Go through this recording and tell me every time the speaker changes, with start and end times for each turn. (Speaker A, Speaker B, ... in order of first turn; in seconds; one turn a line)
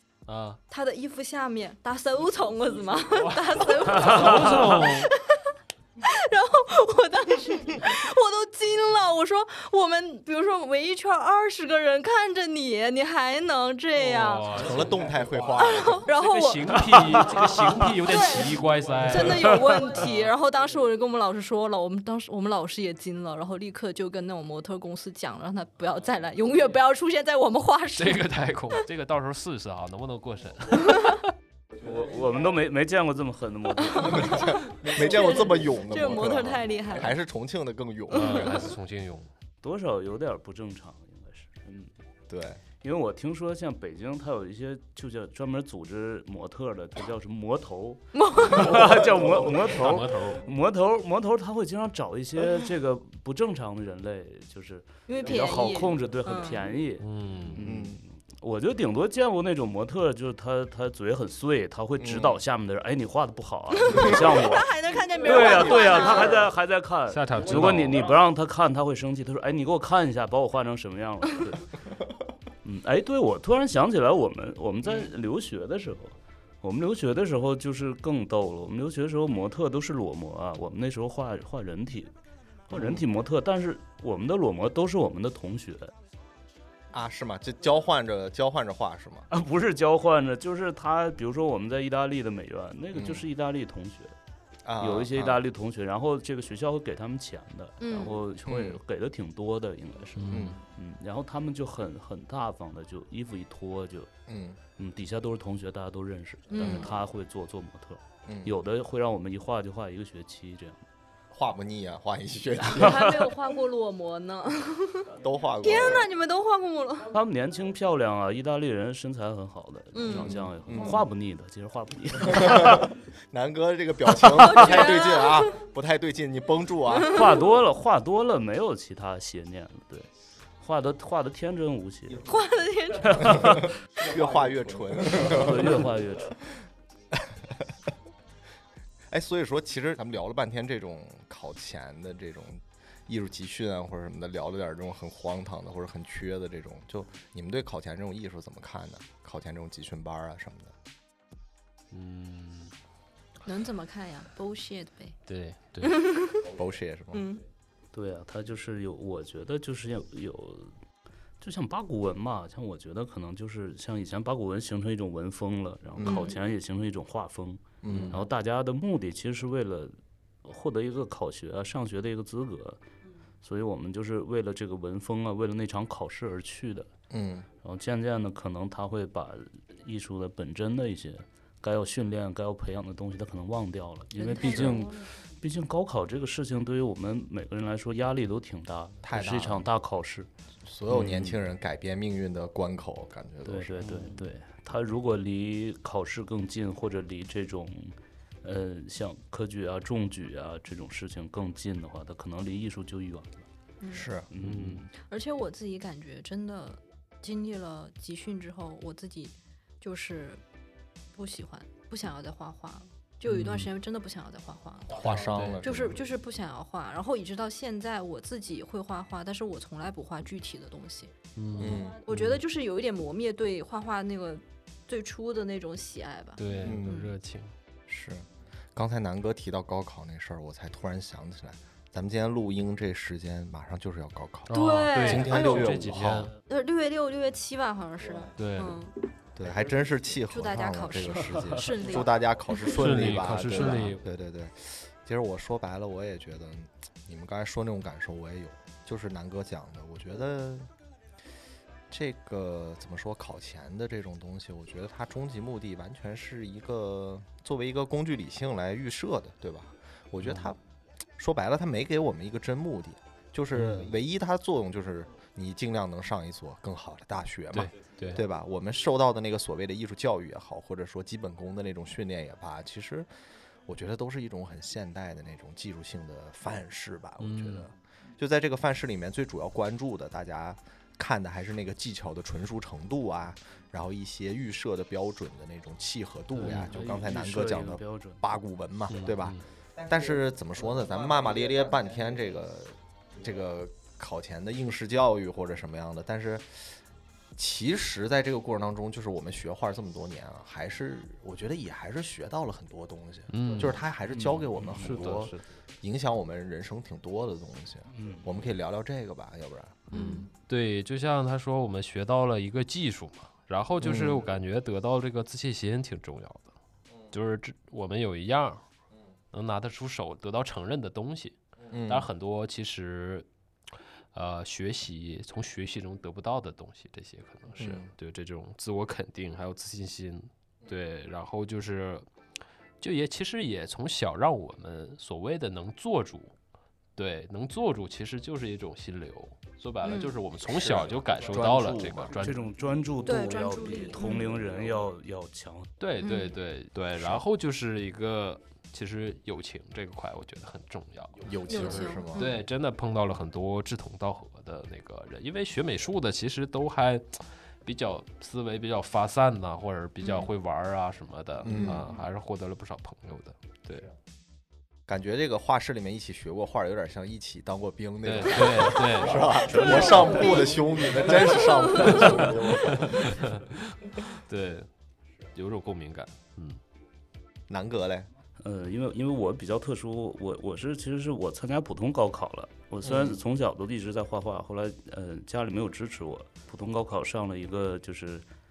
Speaker A: 0.3-0.6
Speaker B: 0.7-14.8
Speaker A: 3.2-5.1
Speaker C: 4.0-4.8
Speaker A: 14.0-15.0
Speaker D: 14.5-16.1
Speaker B: 15.6-17.3
Speaker A: 16.1-20.1
Speaker C: 16.9-18.0
Speaker B: 18.0-28.3
Speaker C: 19.5-20.0
Speaker A: 27.9-31.3
Speaker C: 31.8-34.5
Speaker D: 34.0-38.7
Speaker B: 34.0-37.1
Speaker A: 38.1-39.3
Speaker C: 39.6-41.9
Speaker D: 42.3-42.6
Speaker C: 42.8-71.7
Speaker B: 48.1-48.8
Speaker A: 49.7-50.5
Speaker B: 55.1-56.6
Speaker A: 57.0-57.6
Speaker D: 57.6-58.0
Speaker D: 62.0-62.4
Speaker B: 63.8-66.4
Speaker A: 67.1-68.1
Speaker C: 72.6-82.1
Speaker C: 82.7-85.9
Speaker D: 82.7-83.0
Speaker D: 86.9-89.3
Speaker C: 89.3-94.1
Speaker D: 92.9-93.2
Speaker D: 94.6-95.4
Speaker C: 94.8-104.1
Speaker B: 97.8-98.2
Speaker D: 98.5-98.8
Speaker A: 100.2-100.6
Speaker D: 100.3-100.6
Speaker D: 104.3-104.6
Speaker C: 104.8-110.8
Speaker B: 106.5-106.9
Speaker D: 106.6-106.9
Speaker D: 108.2-108.5
Speaker D: 111.3-113.0
Speaker B: 112.6-115.1
Speaker C: 112.8-113.2
Speaker D: 115.2-116.1
Speaker B: 115.6-117.1
Speaker C: 117.1-122.9
Speaker B: 119.9-120.3
Speaker D: 120.0-121.1
Speaker D: 122.2-127.3
Speaker B: 124.3-125.6
Speaker C: 127.0-130.1
Speaker C: 130.6-132.2
Speaker B: 132.2-133.6
Speaker D: 133.2-135.9
Speaker C: 135.1-136.3
Speaker D: 137.1-137.7
Speaker D: 139.1-150.7
Speaker A: 151.9-152.7
Speaker B: 153.4-155.2
Speaker A: 155.3-156.0
Speaker B: 155.8-156.4
Speaker D: 156.4-157.2
Speaker B: 157.1-157.4
Speaker C: 157.9-160.8
Speaker C: 161.4-172.8
Speaker D: 165.9-166.3
Speaker B: 166.0-166.4
Speaker D: 167.8-168.2
Speaker C: 173.4-176.9
Speaker D: 177.1-177.5
Speaker C: 177.6-190.3
Speaker B: 184.1-185.1
Speaker D: 184.5-184.8
Speaker D: 189.0-189.7
Speaker D: 190.6-193.9
Speaker C: 190.9-191.4
Speaker C: 193.4-203.5
Speaker A: 193.8-194.1
Speaker B: 203.8-204.1
Speaker D: 203.9-204.3
Speaker C: 204.3-204.9
Speaker A: 204.4-204.8
Speaker B: 205.0-210.4
Speaker B: 211.1-221.1
Speaker A: 213.3-213.7
Speaker D: 214.9-216.0
Speaker A: 215.3-215.7
Speaker A: 221.3-222.4
Speaker D: 221.6-222.1
Speaker B: 221.6-227.1
Speaker A: 226.4-227.5
Speaker D: 226.6-227.0
Speaker D: 227.9-236.3
Speaker A: 234.5-236.3
Speaker B: 234.5-235.8
Speaker B: 236.4-238.9
Speaker A: 238.3-238.8
Speaker D: 239.3-250.7
Speaker B: 240.3-242.8
Speaker A: 242.7-244.1
Speaker B: 243.5-243.8
Speaker D: 251.9-260.6
Speaker A: 260.2-260.5
Speaker D: 261.2-273.1
Speaker A: 263.5-263.9
Speaker A: 267.5-268.2
Speaker D: 273.6-296.8
Speaker A: 277.2-277.7
Speaker C: 286.3-288.3
Speaker A: 286.4-286.7
Speaker A: 288.9-289.4
Speaker D: 297.4-310.1
Speaker A: 303.3-303.8
Speaker C: 304.1-305.3
Speaker A: 304.7-305.4
Speaker C: 307.9-308.3
Speaker A: 309.9-316.5
Speaker B: 309.9-310.2
Speaker D: 313.8-314.2
Speaker A: 317.1-318.6
Speaker A: 319.3-323.3
Speaker D: 321.7-322.1
Speaker A: 324.1-332.1
Speaker D: 327.6-327.9
Speaker A: 332.8-336.3
Speaker A: 336.9-342.4
Speaker B: 339.8-340.1
Speaker D: 340.4-342.3
Speaker C: 342.2-345.7
Speaker B: 343.0-344.3
Speaker A: 345.8-363.9
Speaker B: 346.0-346.3
Speaker D: 346.9-347.2
Speaker D: 351.2-352.4
Speaker B: 351.5-352.4
Speaker B: 360.0-360.3
Speaker D: 361.4-361.9
Speaker B: 361.5-361.8
Speaker D: 364.9-373.3
Speaker A: 368.0-370.3
Speaker B: 369.2-373.0
Speaker A: 371.8-374.7
Speaker A: 375.3-376.6
Speaker D: 377.5-378.1
Speaker C: 378.4-388.2
Speaker D: 382.8-383.2